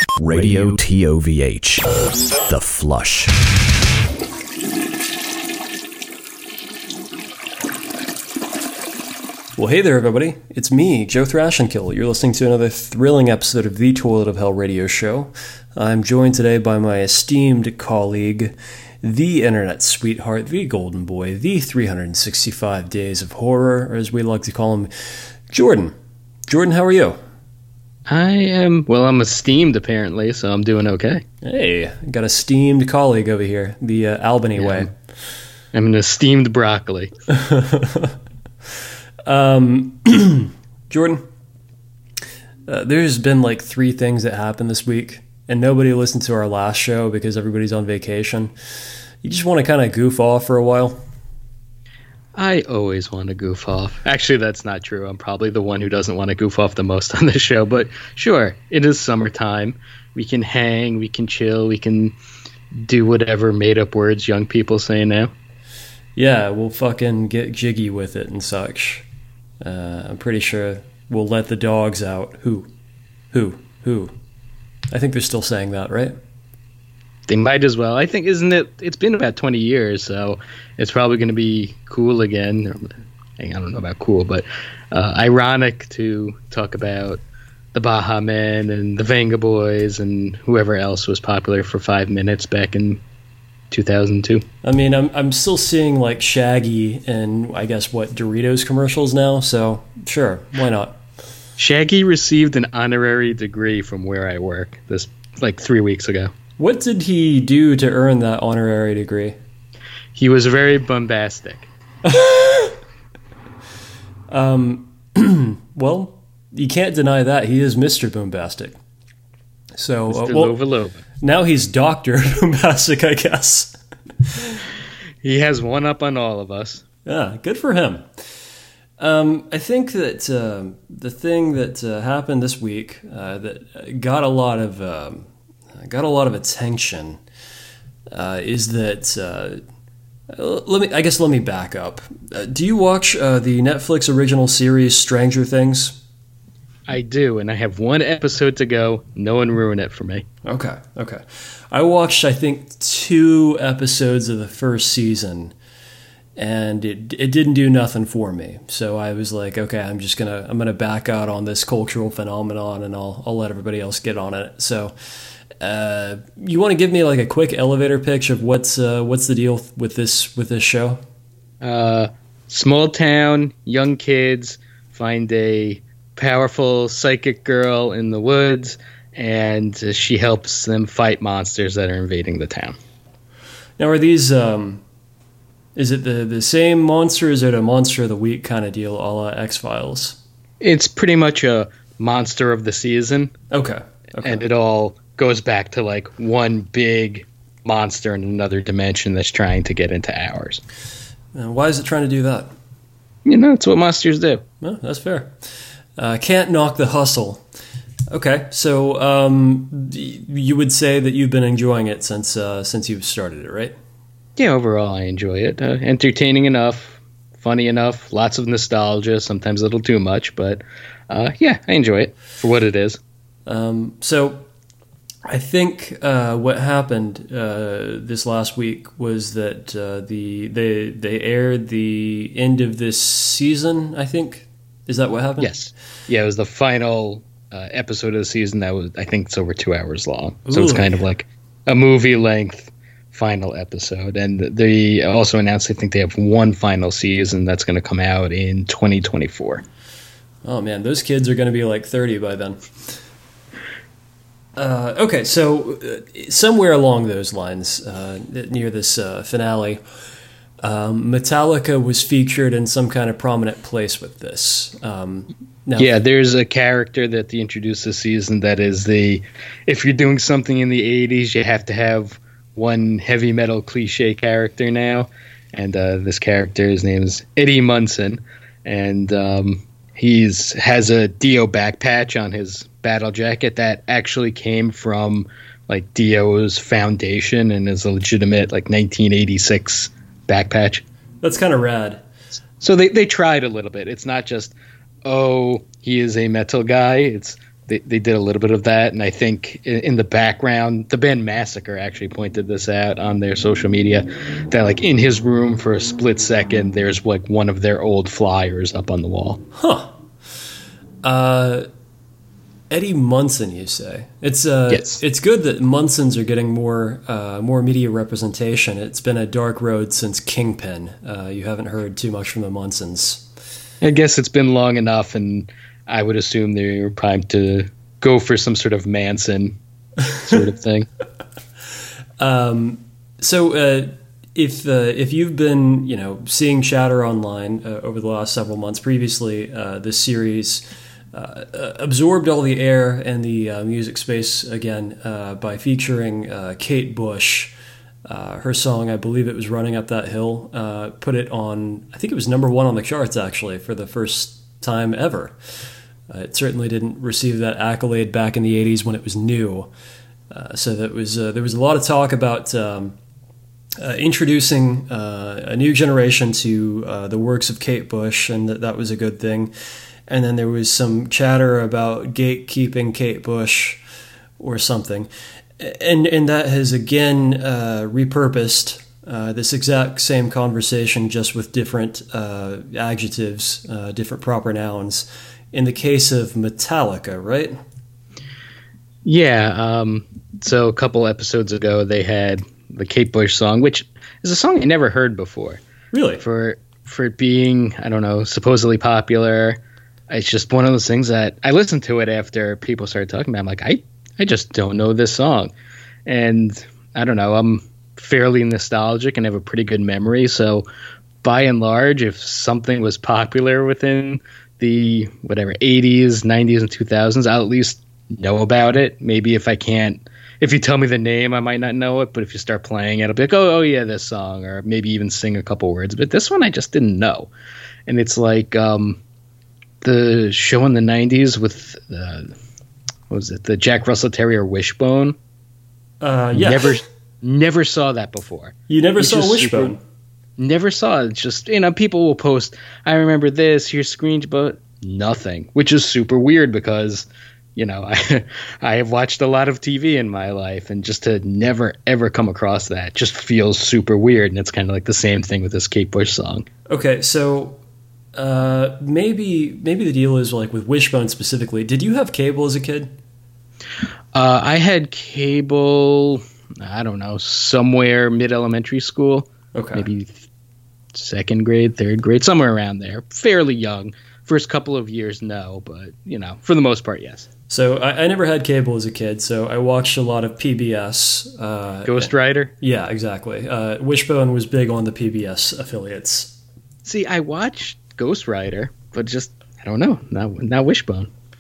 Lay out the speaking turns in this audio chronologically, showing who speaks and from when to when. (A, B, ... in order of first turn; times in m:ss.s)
0:00.2-0:02.0 A
0:02.5-0:03.3 A
0:09.6-0:25.9 B
0:26.5-0:27.2 B
0:28.1-0:31.2 C
0:31.4-0:34.9 B
0:34.6-0:34.9 C
0:35.7-0:37.1 C
0:37.3-0:38.2 B
0:39.3-0:41.2 B
0:42.7-0:48.5 B
0:49.2-0:51.0 B
0:52.4-1:02.2 C
1:02.7-1:05.3 C
1:06.2-1:09.0 B
1:09.6-1:12.7 B
1:13.3-1:14.1 B
1:14.9-1:16.2 B
1:17.3-1:27.2 C
1:27.7-1:33.0 C
1:33.7-1:34.5 C
1:34.6-1:41.0 B
1:41.6-1:46.3 C
1:46.6-1:49.4 B
1:50.2-1:51.7 C
1:52.0-1:52.8 B
1:54.3-1:58.7 B
1:59.8-2:00.6 B
2:00.1-2:01.0 C
2:01.2-2:03.8 B
2:04.3-2:04.6 B
2:05.2-2:06.8 C
2:07.1-2:08.0 B
2:09.0-2:15.3 B
2:15.8-2:17.2 B
2:18.1-2:19.6 B
2:20.3-2:26.0 B
2:26.9-2:30.2 C
2:30.4-2:35.5 B
2:36.4-2:44.9 B
2:45.6-2:51.0 B
2:51.6-3:02.8 C
3:03.8-3:04.8 B
3:05.8-3:10.2 B
3:10.6-3:13.4 C
3:13.5-3:14.4 B
3:14.2-3:20.6 C
3:21.4-3:22.5 B
3:23.2-3:24.4 C
3:24.6-3:25.4 B
3:26.0-3:27.4 B
3:28.1-3:33.8 B
3:34.4-3:43.0 C
3:43.5-3:44.4 B
3:45.3-3:55.5 B
3:55.4-4:09.6 C
4:00.5-4:00.9 B
4:10.4-4:12.6 B
4:14.6-4:19.8 B
4:20.6-4:26.0 B
4:25.8-4:50.8 C
4:51.2-4:52.0 B
4:52.6-5:09.4 C
5:09.6-5:09.9 B
5:11.0-5:11.7 B
5:12.7-5:23.2 B
5:14.7-5:15.0 C
5:23.8-5:29.6 C
5:30.2-5:30.9 C
5:32.2-5:47.5 B
5:48.0-5:55.4 B
5:56.1-5:59.7 B
6:00.3-6:03.0 B
6:03.8-6:09.5 B
6:10.1-6:13.8 B
6:14.4-6:27.6 B
6:29.0-6:35.6 C
6:35.9-6:36.2 B
6:36.2-6:45.5 C
6:46.1-6:50.6 C
6:51.2-7:07.3 C
7:07.9-7:09.0 C
7:09.8-7:12.3 C
7:13.1-7:15.2 C
7:16.0-7:16.8 B
7:16.3-7:19.8 C
7:18.7-7:19.8 B
7:20.4-7:36.5 C
7:36.7-7:37.6 B
7:38.2-7:42.9 B
7:44.1-7:50.2 C
7:49.6-7:49.9 B
7:50.9-7:57.3 C
7:57.5-8:06.3 B
8:01.8-8:02.5 C
8:06.8-8:11.1 C